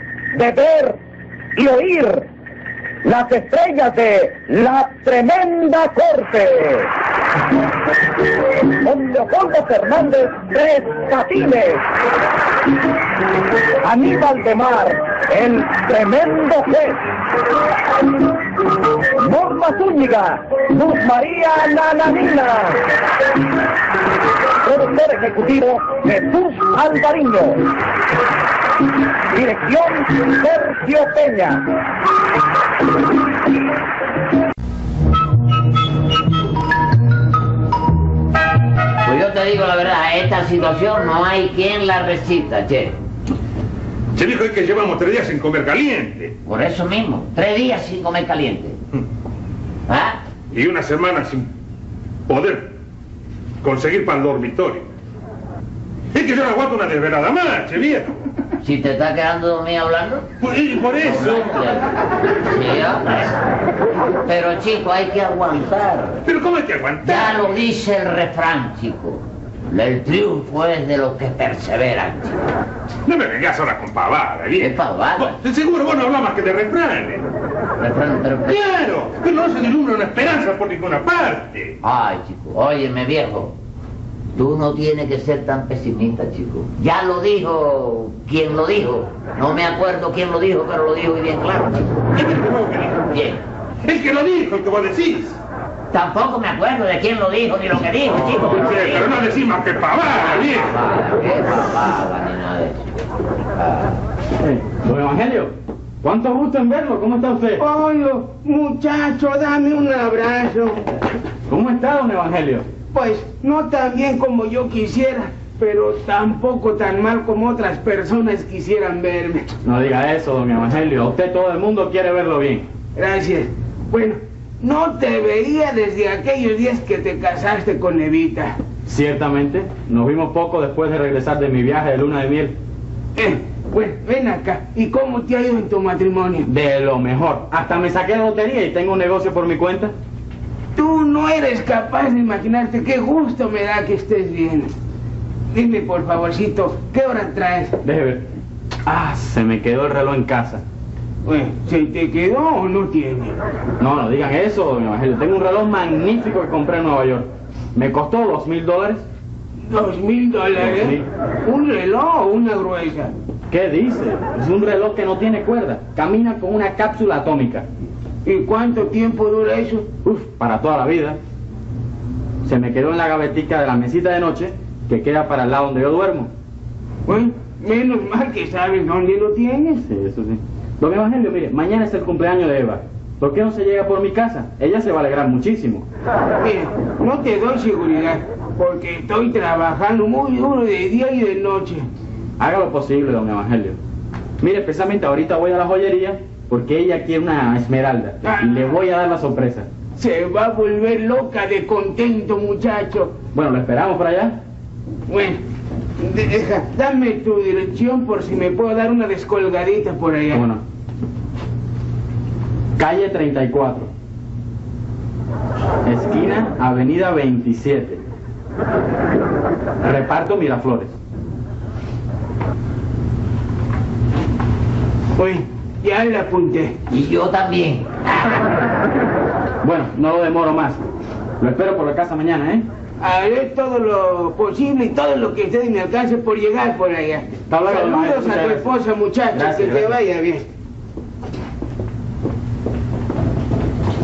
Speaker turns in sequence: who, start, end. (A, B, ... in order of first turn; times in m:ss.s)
0:00.4-0:00.9 A
0:01.8-0:02.2 A
0:03.1-0:06.9 A
0:09.1-0:11.8 A
0:14.1-0:16.8 A
0:19.5-0:20.3 A
0:20.9-0:22.7 A
0:24.8-0:27.6 A
0:29.6-0:31.6 A
0:39.0-0:42.9 B
0:44.1-0:46.4 C
0:46.4-0:48.8 B
0:49.9-0:50.2 B
0:50.5-0:51.5 C
0:52.3-0:52.8 C
0:53.6-0:54.9 C
0:56.1-0:58.2 C
0:58.6-1:00.2 B
1:00.4-1:01.6 C
1:01.0-1:01.8 B
1:02.4-1:03.4 B
1:04.2-1:06.2 B
1:06.2-1:07.4 C
1:07.0-1:12.4 B
1:13.0-1:17.3 C
1:14.6-1:15.4 B
1:17.8-1:18.6 B
1:18.5-1:21.8 C
1:21.8-1:23.5 B
1:24.3-1:31.9 B
1:32.1-1:33.0 C
1:33.1-1:33.4 B
1:33.8-1:35.4 C
1:35.9-1:39.1 B
1:38.4-1:40.7 C
1:40.1-1:42.8 B
1:43.6-1:44.0 B
1:44.4-1:47.6 D
1:47.6-1:50.8 E
1:51.5-1:52.6 D
1:52.9-1:59.5 E
1:59.6-2:02.7 D
2:02.9-2:08.6 E
2:08.8-2:12.6 D
2:13.2-2:16.5 E
2:16.4-2:19.9 D
2:20.8-2:24.7 E
2:25.5-2:27.7 E
2:27.8-2:28.2 D
2:28.8-2:30.6 D
2:31.2-2:33.4 E
2:33.8-2:39.0 D
2:39.6-2:43.1 E
2:40.6-2:41.1 D
2:43.5-2:47.7 D
2:48.2-2:49.9 E
2:50.0-2:51.2 D
2:52.4-2:56.3 D
2:57.1-2:59.8 E
2:59.8-3:05.8 D
3:06.4-3:11.9 E
3:12.4-3:13.8 D
3:14.4-3:19.7 D
3:18.2-3:18.7 E
3:20.0-3:23.2 E
3:23.3-3:24.4 D
3:25.1-3:25.4 E
3:26.0-3:30.4 E
3:30.3-3:30.6 D
3:32.8-3:33.9 D
3:35.8-3:38.0 D
3:39.8-3:40.9 D
3:45.2-3:46.7 E
3:46.9-3:48.6 B
3:49.6-3:50.8 D
3:51.4-3:52.6 D
3:53.0-4:00.4 E
3:57.5-3:58.7 D
3:59.3-4:00.0 D